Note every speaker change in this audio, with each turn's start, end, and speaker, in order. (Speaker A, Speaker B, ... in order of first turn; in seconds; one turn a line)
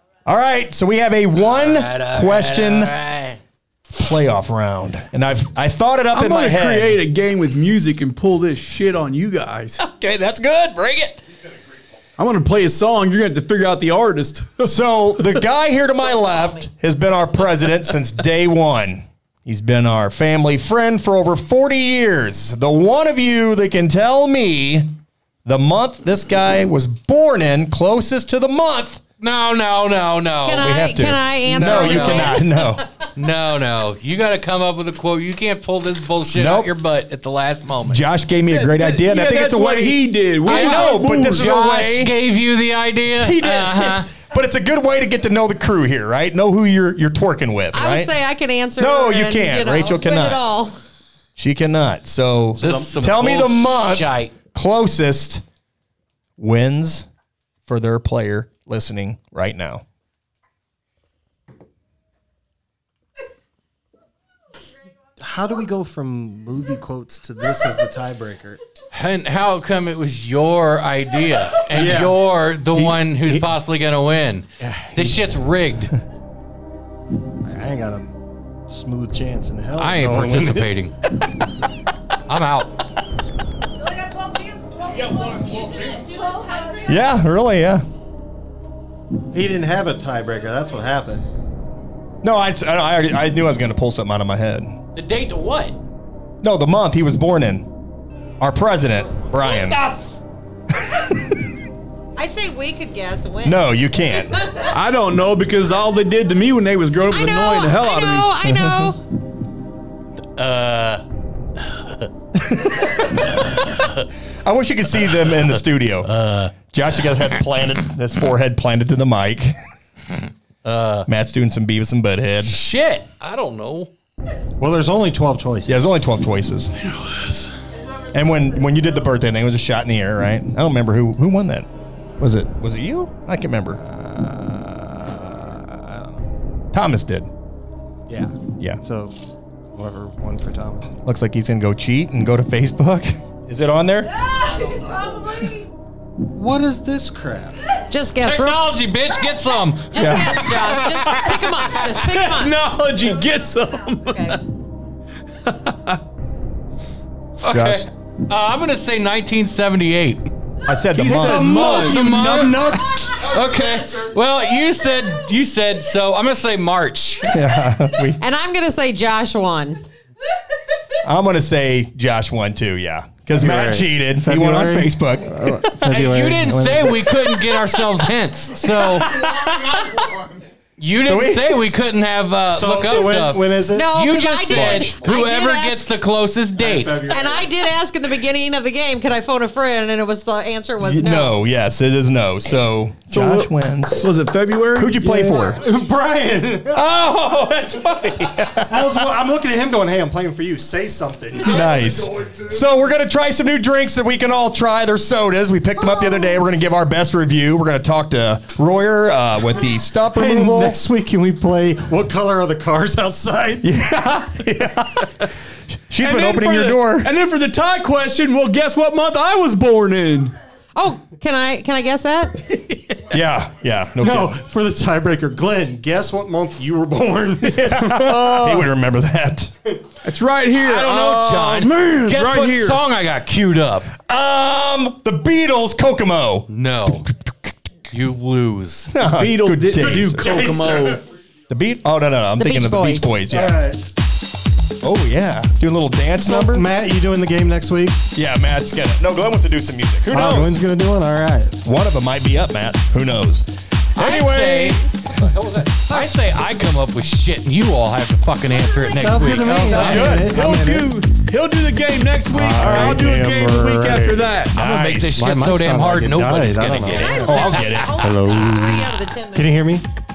Speaker A: 0.2-2.9
Speaker B: 1.4-3.4
Speaker A: 3.9-7.0
Speaker C: 6.1-9.8
Speaker A: 9.8-11.2
Speaker C: 12.2-14.7
Speaker A: 14.6-24.9
Speaker A: 25.4-29.0
Speaker B: 29.2-30.8
Speaker D: 30.4-32.7
Speaker A: 30.6-32.8
Speaker B: 31.5-32.3
Speaker B: 33.1-38.0
Speaker A: 36.3-36.7
Speaker A: 37.9-42.1
Speaker C: 38.5-41.5
Speaker B: 40.5-44.1
Speaker A: 43.2-48.1
Speaker D: 47.7-50.8
Speaker A: 48.8-50.4
Speaker A: 51.4-55.4
Speaker B: 52.5-54.3
Speaker A: 56.4-57.1
Speaker A: 57.6-59.8
Speaker E: 65.2-68.6
Speaker B: 68.9-75.9
Speaker E: 71.7-73.5
Speaker E: 74.6-75.3
Speaker E: 77.4-78.1
Speaker E: 78.7-80.8
Speaker B: 79.8-80.9
Speaker B: 82.3-82.7
Speaker A: 86.8-87.8
Speaker E: 89.3-91.2
Speaker A: 92.2-94.8
Speaker B: 94.9-95.8
Speaker A: 96.4-97.7
Speaker A: 98.4-99.8
Speaker A: 100.9-101.3
Speaker D: 102.2-103.6
Speaker A: 103.4-104.4
Speaker C: 104.7-108.3
Speaker D: 107.1-109.0
Speaker A: 108.4-108.9
Speaker B: 110.4-111.0
Speaker A: 112.3-113.5
Speaker A: 114.4-116.1
Speaker B: 116.1-116.5
Speaker A: 116.7-119.5
Speaker B: 120.6-121.0
Speaker A: 121.1-122.6
Speaker B: 122.4-123.9
Speaker E: 124.6-125.9
Speaker A: 125.7-126.7
Speaker A: 128.1-131.7
Speaker A: 132.2-133.8
Speaker E: 133.8-136.2
Speaker A: 136.7-137.3
Speaker E: 138.1-139.2
Speaker E: 139.7-140.9
Speaker A: 141.0-144.2
Speaker E: 146.3-147.6
Speaker D: 147.9-148.6
Speaker B: 148.2-150.2
Speaker D: 149.9-152.5
Speaker A: 150.0-150.4
Speaker C: 151.1-154.4
Speaker D: 154.1-154.4
Speaker C: 155.4-156.0
Speaker B: 157.4-160.2
Speaker A: 157.4-157.9
Speaker A: 160.7-161.7
Speaker C: 160.9-162.3
Speaker E: 161.0-163.3
Speaker B: 161.3-167.3
Speaker A: 167.2-168.2
Speaker D: 168.2-169.8
Speaker A: 171.0-175.7
Speaker E: 173.3-177.5
Speaker B: 175.8-179.2
Speaker A: 178.9-179.9
Speaker B: 180.8-187.1
Speaker A: 181.0-181.6
Speaker E: 182.5-183.9
Speaker D: 183.7-185.9
Speaker A: 184.5-184.9
Speaker E: 186.5-187.5
Speaker D: 187.1-191.3
Speaker A: 190.8-194.1
Speaker C: 193.1-195.0
Speaker A: 194.8-195.6
Speaker E: 195.0-196.8
Speaker A: 196.7-199.1
Speaker E: 198.7-202.4
Speaker A: 201.4-210.8
Speaker E: 210.1-213.6
Speaker A: 213.6-215.1
Speaker A: 215.9-217.1
Speaker C: 216.0-220.3
Speaker D: 220.8-222.4
Speaker A: 223.1-224.4
Speaker E: 224.0-228.3
Speaker A: 227.4-229.5
Speaker C: 228.0-228.7
Speaker C: 230.0-232.8
Speaker B: 230.6-233.9
Speaker A: 234.0-237.5
Speaker B: 236.5-237.1
Speaker B: 237.9-238.9
Speaker A: 238.9-240.5
Speaker C: 239.1-241.0
Speaker E: 239.8-241.0
Speaker A: 241.5-243.6
Speaker D: 242.4-243.1
Speaker E: 243.3-243.8
Speaker A: 244.8-246.7
Speaker E: 246.2-248.1
Speaker A: 248.1-250.6
Speaker E: 250.1-251.6
Speaker A: 251.6-254.8
Speaker B: 254.0-260.3
Speaker E: 258.9-260.9
Speaker C: 259.7-264.6
Speaker A: 259.7-260.1
Speaker E: 262.3-264.4
Speaker A: 262.6-263.0
Speaker A: 264.5-265.3
Speaker B: 264.6-267.9
Speaker E: 265.1-269.9
Speaker D: 266.9-269.6
Speaker A: 267.2-268.1